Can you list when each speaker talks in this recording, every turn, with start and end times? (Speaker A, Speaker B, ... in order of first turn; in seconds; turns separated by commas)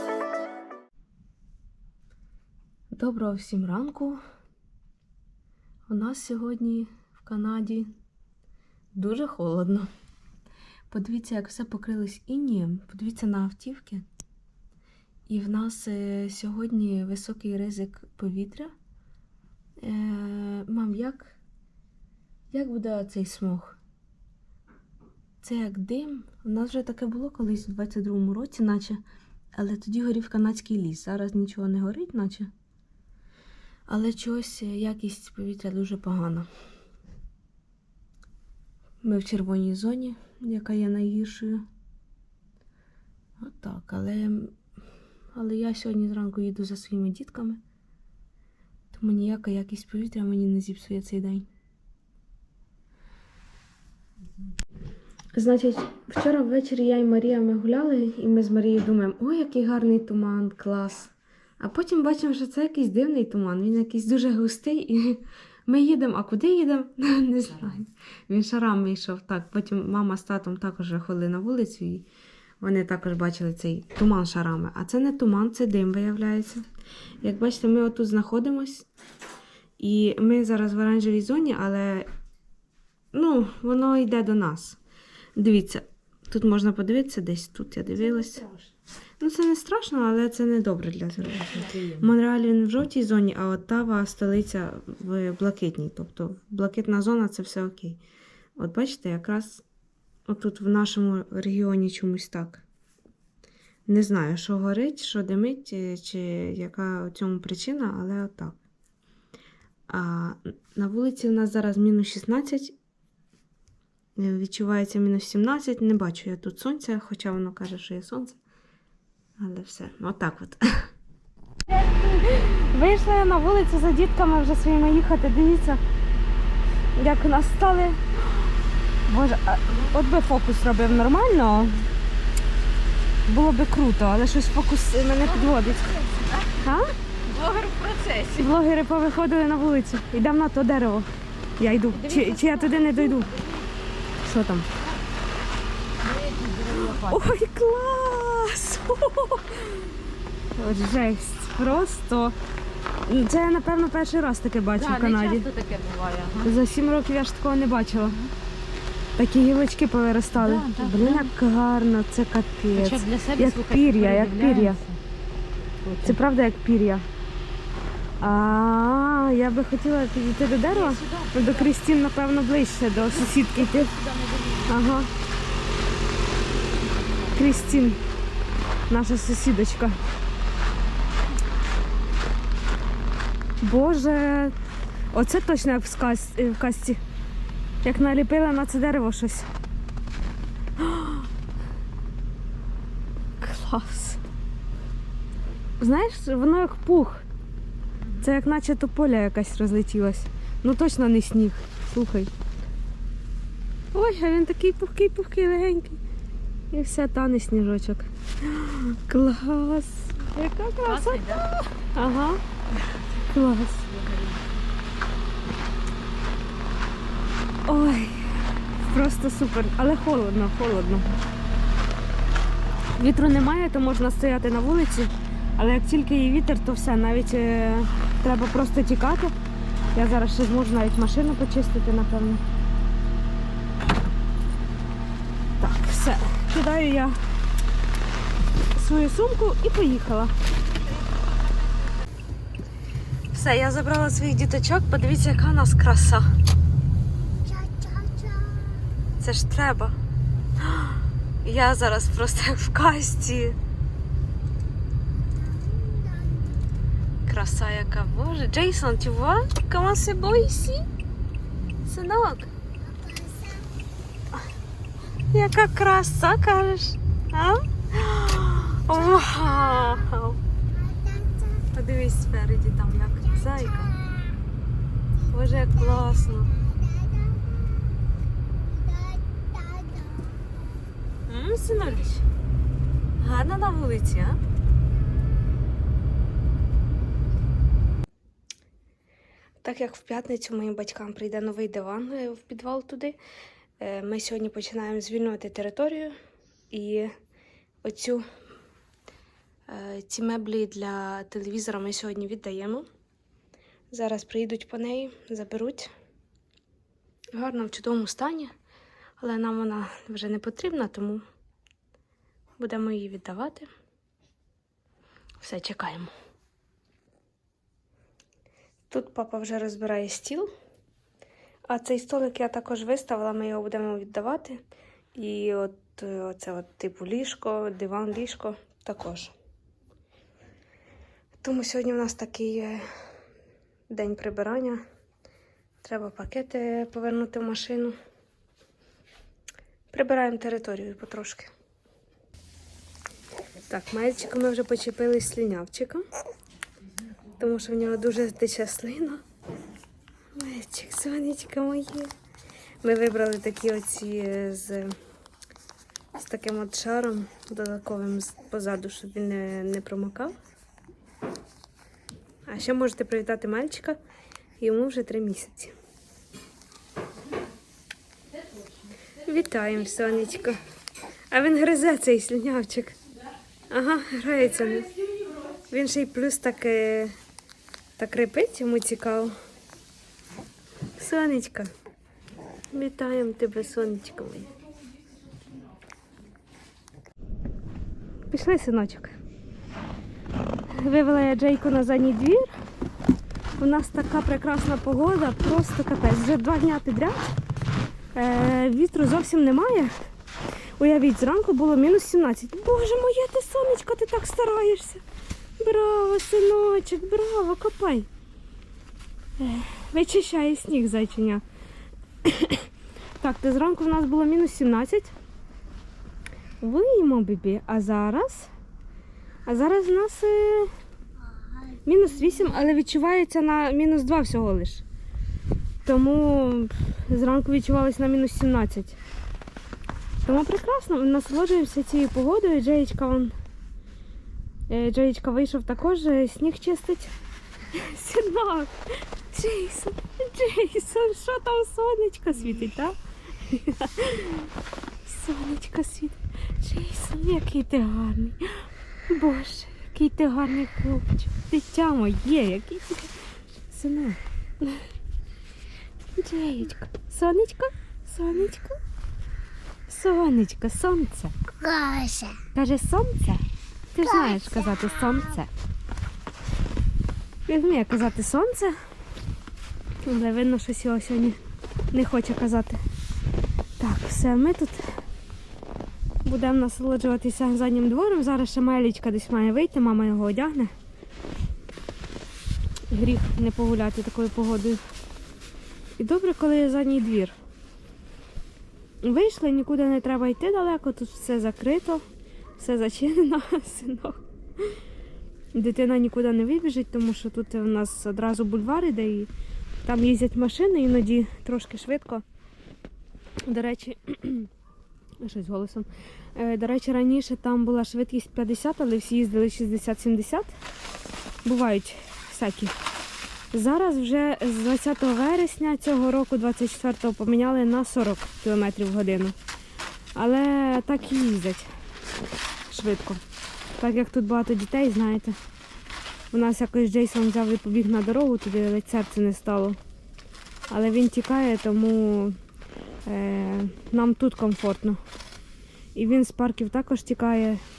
Speaker A: 2.9-4.2, Speaker A: 5.9-7.9, Speaker A: 8.9-9.9, Speaker A: 10.9-14.1, Speaker A: 15.3-18.7, Speaker A: 19.8-21.4, Speaker A: 22.5-23.8, Speaker A: 25.4-29.0, Speaker A: 29.6-32.5, Speaker A: 33.9-36.5, Speaker A: 39.0-41.7, Speaker A: 43.4-44.6, Speaker A: 45.4-47.6, Speaker A: 48.9-51.5, Speaker A: 55.4-72.1, Speaker A: 72.6-76.7, Speaker A: 77.2-78.9, Speaker A: 79.8-82.1, Speaker A: 83.1-84.8, Speaker A: 85.4-88.4, Speaker B: 88.2-88.7, Speaker A: 89.2-98.0, Speaker B: 91.5-92.0, Speaker A: 98.6-99.6, Speaker A: 100.3-102.6, Speaker A: 103.9-108.6, Speaker A: 109.9-112.8, Speaker A: 114.2-118.4, Speaker A: 119.4-120.9, Speaker A: 121.9-125.8, Speaker A: 127.0-128.0, Speaker A: 129.1-131.8, Speaker A: 133.3-135.9, Speaker B: 135.2-136.6, Speaker A: 136.6-136.9, Speaker B: 137.2-138.5, Speaker A: 138.4-141.1, Speaker A: 141.6-143.3, Speaker B: 141.9-143.7, Speaker A: 144.2-144.7, Speaker B: 146.0-147.3, Speaker A: 146.8-149.9, Speaker A: 150.6-152.4, Speaker A: 153.1-155.5, Speaker B: 154.8-156.5, Speaker A: 156.4-158.2, Speaker B: 158.0-158.3, Speaker A: 159.2-164.8, Speaker B: 160.3-161.3, Speaker B: 162.7-165.0, Speaker B: 165.8-166.2, Speaker A: 166.0-167.1, Speaker A: 168.2-173.9, Speaker B: 170.7-171.7, Speaker B: 173.0-174.8, Speaker A: 174.7-175.1, Speaker B: 176.6-177.9, Speaker A: 177.3-178.0, Speaker A: 178.9-180.0, Speaker A: 183.6-184.6, Speaker A: 185.1-187.0, Speaker A: 187.8-189.5, Speaker A: 190.8-191.3, Speaker A: 193.4-194.2, Speaker A: 195.8-197.2, Speaker A: 198.2-202.3, Speaker A: 203.9-206.0, Speaker A: 206.7-211.4, Speaker B: 210.8-211.7, Speaker A: 211.9-212.4, Speaker B: 212.8-213.0, Speaker A: 213.3-213.9, Speaker B: 213.9-214.5, Speaker A: 217.7-221.1, Speaker A: 223.0-229.3, Speaker A: 229.9-232.4, Speaker A: 235.6-237.2, Speaker A: 238.8-240.3, Speaker A: 243.3-246.3, Speaker C: 247.5-248.8, Speaker A: 249.2-249.9, Speaker A: 250.6-253.6, Speaker C: 255.7-256.5, Speaker A: 257.3-260.8, Speaker A: 261.9-262.5, Speaker C: 263.0-263.6, Speaker A: 265.3-270.4, Speaker C: 271.0-271.4, Speaker A: 271.7-274.0, Speaker A: 275.3-276.5, Speaker C: 278.8-280.3, Speaker A: 281.3-282.2, Speaker A: 283.2-284.4, Speaker A: 289.6-293.2, Speaker A: 293.8-296.2, Speaker A: 296.7-297.1, Speaker A: 297.8-298.2, Speaker A: 299.7-302.9, Speaker A: 303.9-305.9, Speaker A: 307.3-308.5, Speaker A: 309.2-311.2, Speaker A: 312.6-313.7, Speaker A: 315.4-316.1, Speaker A: 318.9-320.5, Speaker A: 321.7-324.6, Speaker A: 325.1-329.3, Speaker A: 331.4-332.8, Speaker A: 333.9-334.8, Speaker A: 335.8-338.0, Speaker A: 339.9-341.5, Speaker A: 343.7-346.1, Speaker A: 347.4-349.2, Speaker A: 350.4-352.1, Speaker A: 352.8-355.0, Speaker A: 356.1-360.4, Speaker A: 362.5-364.0, Speaker A: 364.6-365.7, Speaker A: 369.2-370.6, Speaker A: 371.3-373.0, Speaker A: 373.7-375.0, Speaker A: 375.7-377.2, Speaker A: 378.0-379.3, Speaker A: 381.0-381.7, Speaker A: 382.7-384.5, Speaker A: 388.3-389.1, Speaker A: 390.7-392.6, Speaker A: 393.6-397.4, Speaker A: 398.1-399.9, Speaker A: 400.8-405.0, Speaker A: 405.6-408.1, Speaker A: 409.4-411.4, Speaker A: 412.2-412.6, Speaker A: 413.2-415.1, Speaker A: 416.6-418.5, Speaker A: 419.5-420.7, Speaker A: 421.9-424.8, Speaker A: 425.9-429.0, Speaker A: 430.2-433.4, Speaker A: 434.7-437.1, Speaker A: 437.7-438.7, Speaker A: 439.3-444.5, Speaker A: 445.1-453.1, Speaker A: 453.7-454.8, Speaker A: 456.2-458.8, Speaker A: 459.9-461.4, Speaker C: 461.6-462.4, Speaker A: 462.5-465.5, Speaker A: 467.5-468.8, Speaker A: 470.0-471.4, Speaker A: 471.9-472.8, Speaker A: 473.8-474.9, Speaker A: 476.2-480.7, Speaker A: 482.9-484.8, Speaker A: 486.0-487.4, Speaker A: 489.0-492.0, Speaker A: 492.6-494.7, Speaker A: 495.5-499.3, Speaker A: 499.9-502.2, Speaker A: 503.5-504.5, Speaker A: 505.2-510.5, Speaker A: 511.4-512.8, Speaker A: 513.5-519.4, Speaker A: 520.1-521.7, Speaker A: 522.7-523.2, Speaker A: 523.8-525.4, Speaker A: 526.3-529.8, Speaker A: 530.7-532.4, Speaker A: 533.0-535.0, Speaker A: 536.0-537.6